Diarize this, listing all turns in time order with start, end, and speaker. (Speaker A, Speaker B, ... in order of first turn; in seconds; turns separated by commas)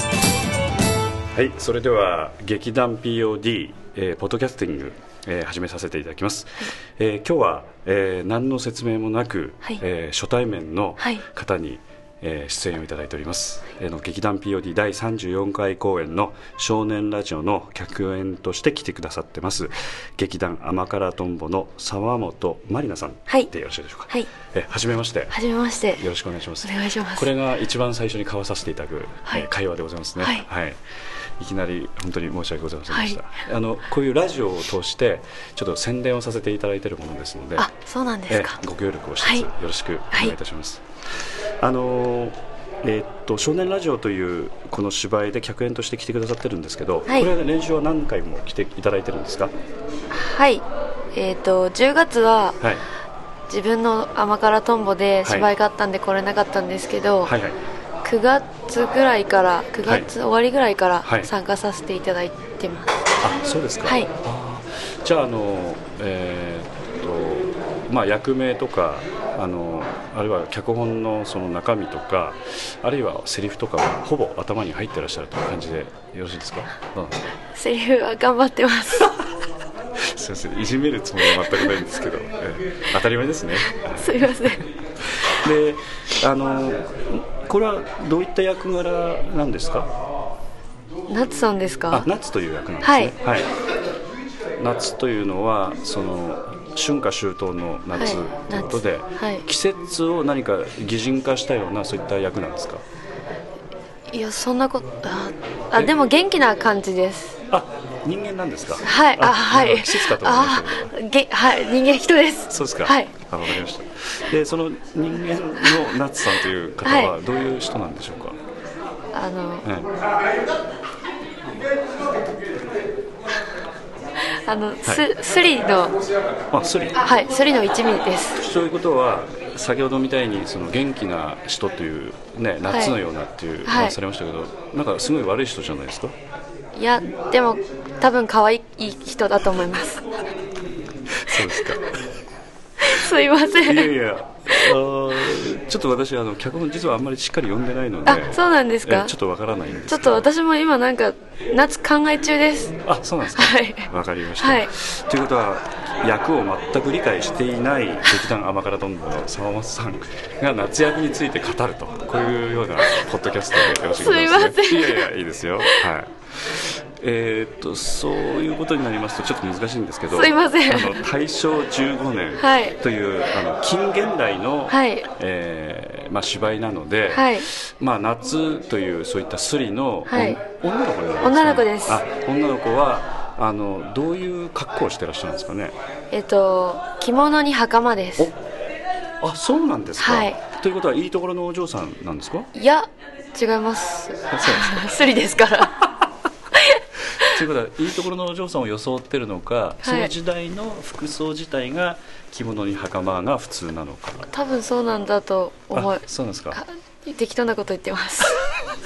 Speaker A: 1.3-25.4, Speaker B: 11.0-11.2, Speaker B: 25.3-26.0, Speaker A: 26.0-30.8, Speaker B: 26.6-27.3, Speaker B: 30.2-30.4, Speaker A: 31.4-37.7, Speaker B: 32.9-33.2, Speaker B: 37.6-38.6, Speaker A: 38.3-40.8, Speaker B: 39.2-39.5, Speaker A: 41.6-49.5, Speaker B: 50.1-52.6, Speaker B: 53.5-57.3, Speaker A: 57.2-57.6, Speaker B: 58.0-63.0, Speaker A: 59.8-60.1, Speaker A: 61.0-61.3, Speaker A: 63.2-77.2, Speaker B: 63.8-64.1, Speaker B: 77.5-79.1, Speaker A: 80.0-84.3, Speaker B: 83.9-84.7, Speaker A: 85.1-89.9, Speaker B: 91.1-92.1, Speaker A: 91.9-93.5, Speaker B: 92.8-93.1, Speaker A: 94.6-102.8, Speaker B: 98.0-99.4, Speaker B: 104.1-107.3, Speaker A: 105.7-106.1, Speaker A: 107.5-110.9, Speaker B: 108.8-113.1, Speaker A: 112.5-118.4, Speaker B: 116.8-117.2, Speaker B: 119.1-119.7, Speaker B: 124.3-126.0, Speaker A: 126.5-127.0, Speaker B: 127.0-128.4, Speaker A: 128.3-136.1, Speaker B: 132.6-133.0, Speaker B: 133.7-133.9, Speaker B: 136.8-140.1, Speaker A: 141.2-141.9, Speaker B: 142.8-143.9, Speaker A: 143.6-150.3, Speaker B: 148.1-149.1, Speaker B: 149.9-152.8, Speaker A: 152.8-185.7, Speaker B: 153.3-154.7, Speaker B: 163.9-165.9, Speaker B: 170.1-171.0, Speaker B: 172.4-172.8, Speaker B: 174.7-175.1, Speaker B: 177.1-177.5, Speaker B: 180.1-180.4, Speaker B: 181.2-182.0, Speaker B: 186.1-188.3, Speaker A: 189.2-192.5, Speaker B: 190.0-190.4, Speaker B: 192.5-195.9, Speaker A: 194.3-195.0, Speaker B: 196.5-197.4, Speaker A: 197.2-204.3, Speaker B: 199.8-200.1, Speaker B: 204.3-208.4, Speaker A: 205.7-206.6